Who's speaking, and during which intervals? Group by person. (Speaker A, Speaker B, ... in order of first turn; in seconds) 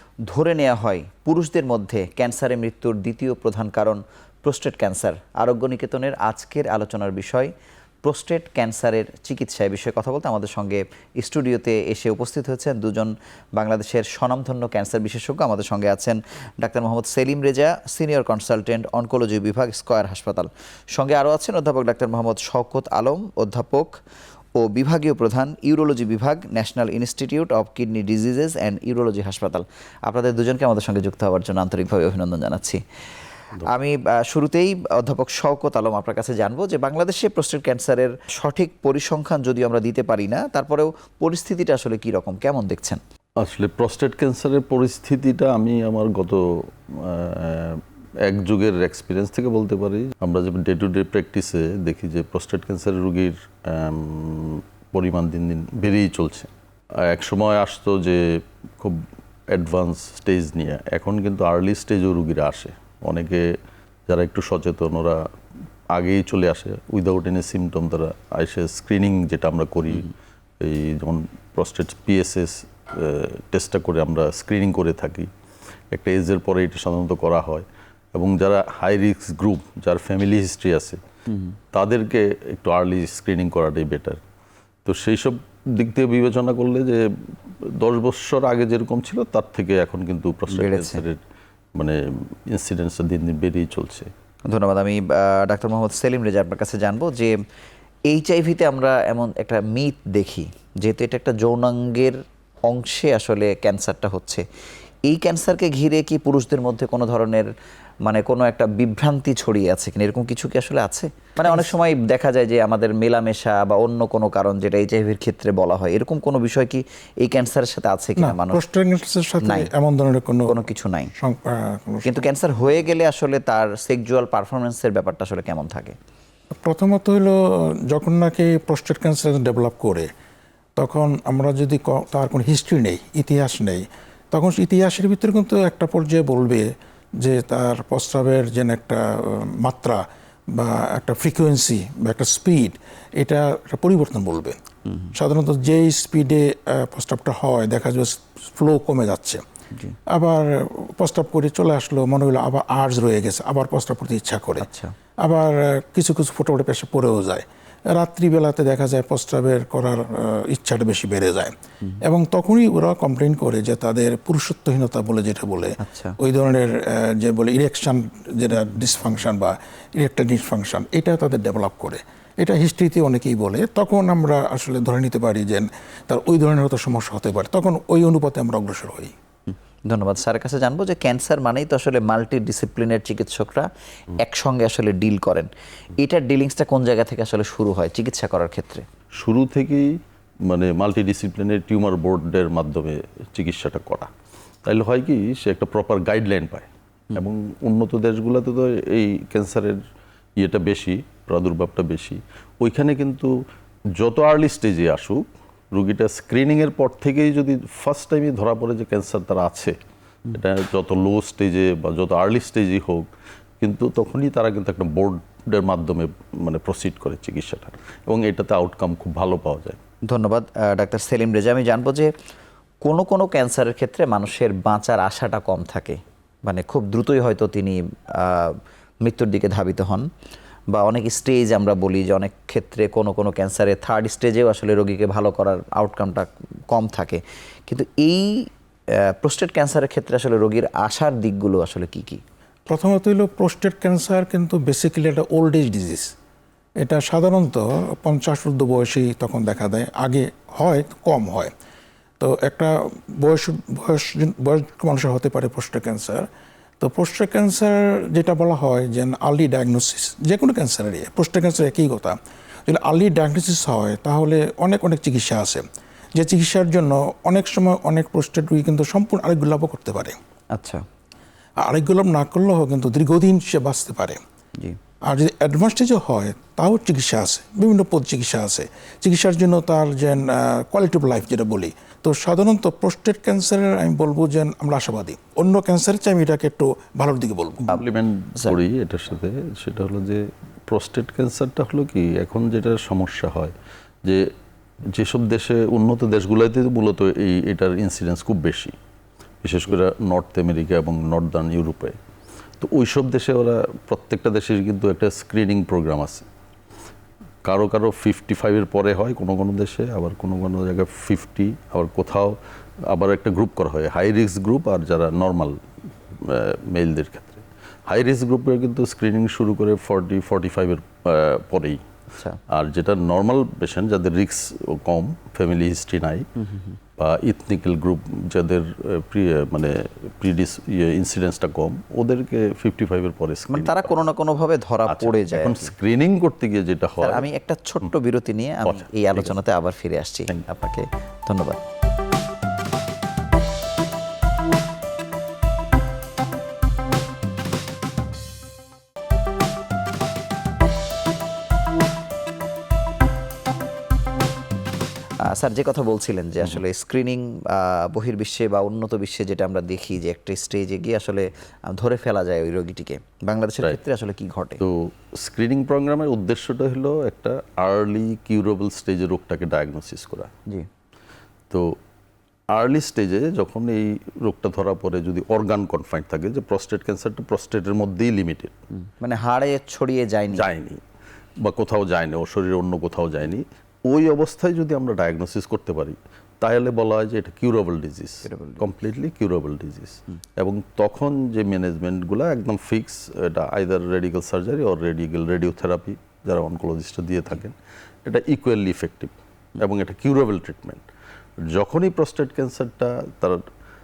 Speaker A: 0.3-7.5, 8.0-23.9, 24.6-32.8, 33.6-43.0, 81.3-81.5, 90.5-91.0, 94.5-97.3, 98.1-102.1, 102.7-104.4, 105.0-107.5, 108.0-118.6, 119.4-119.7, 120.5-121.1, 122.0-126.0, 154.6-154.9, 165.8-166.2, 179.5-188.8, 220.1-222.1, 222.8-230.1, 230.7-238.5, 239.2-242.2, 270.5-270.8, 326.4-326.8, 333.5-335.7, 337.0-341.6, 355.2-364.6, 379.0-380.5, 388.2-388.6
Speaker B: 43.4-56.5, 57.0-63.5, 64.1-65.2, 65.9-75.3, 75.9-81.0, 81.7-84.2, 84.8-87.0, 87.7-91.2, 92.5-94.1, 189.2-189.9, 190.5-194.1, 194.6-199.8, 200.4-203.3, 204.0-209.8, 210.3-213.1, 213.6-219.8, 287.7-293.5, 294.9-298.7, 299.4-302.0, 302.6-306.2, 307.4-312.4, 312.9-315.6, 316.2-321.8, 322.5-326.3, 327.0-333.9, 334.9-337.3, 338.6-339.3, 364.6-370.3, 371.5-371.8, 372.5-378.5, 380.3-380.8, 381.4-400.9, 401.4-403.4
Speaker C: 111.4-111.7, 118.2-120.6, 121.1-122.3, 126.6-127.4, 127.9-130.1, 130.8-136.7, 137.2-140.0, 140.5-144.6, 145.1-149.4, 150.1-154.7, 155.2-179.1, 242.7-246.1, 246.8-251.5, 252.2-256.3, 256.8-270.1, 271.6-274.2, 275.1-287.8